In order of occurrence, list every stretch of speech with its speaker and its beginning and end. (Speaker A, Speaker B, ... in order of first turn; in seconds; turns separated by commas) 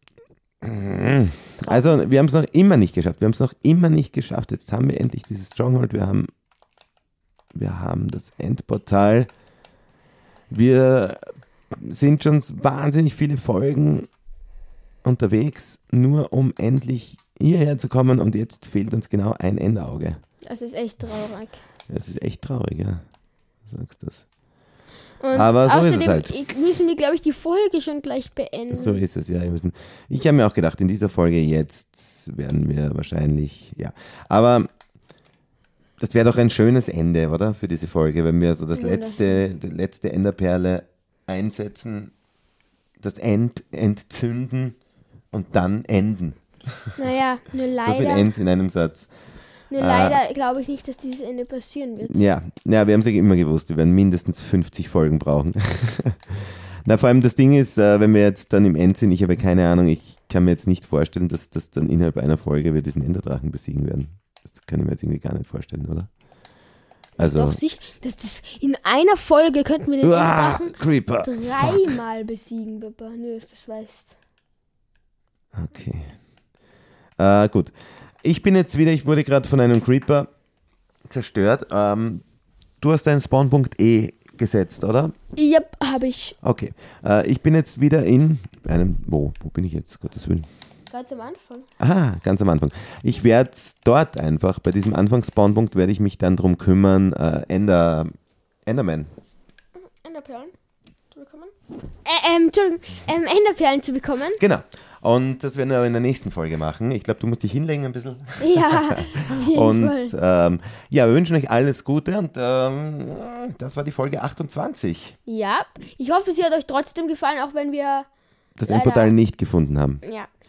Speaker A: 0.6-6.3, Speaker B: 1.6-2.0, Speaker A: 7.5-9.3, Speaker A: 10.5-14.1, Speaker A: 15.0-20.2, Speaker B: 20.4-21.6, Speaker A: 21.9-23.0, Speaker A: 23.6-24.2, Speaker B: 25.2-29.0, Speaker A: 25.3-26.3, Speaker A: 28.7-34.7, Speaker A: 36.0-42.1, Speaker B: 38.7-39.4, Speaker A: 43.0-44.8, Speaker A: 45.3-47.0, Speaker B: 47.0-48.3, Speaker A: 47.8-49.1, Speaker B: 49.7-52.3, Speaker A: 49.7-50.2, Speaker A: 52.0-66.1, Speaker A: 67.2-67.6, Speaker B: 67.2-74.1, Speaker A: 70.0-72.0, Speaker A: 75.5-76.1, Speaker A: 77.2-80.3, Speaker A: 81.1-82.2, Speaker A: 82.8-85.1, Speaker B: 85.3-86.4, Speaker A: 86.4-90.5, Speaker B: 90.9-91.7, Speaker A: 91.8-98.1, Speaker A: 98.7-99.1, Speaker B: 99.8-100.5, Speaker B: 101.1-104.4, Speaker A: 104.4-115.2, Speaker B: 108.4-110.1, Speaker B: 115.3-118.1, Speaker A: 118.6-120.0, Speaker B: 118.7-119.1, Speaker B: 120.0-120.3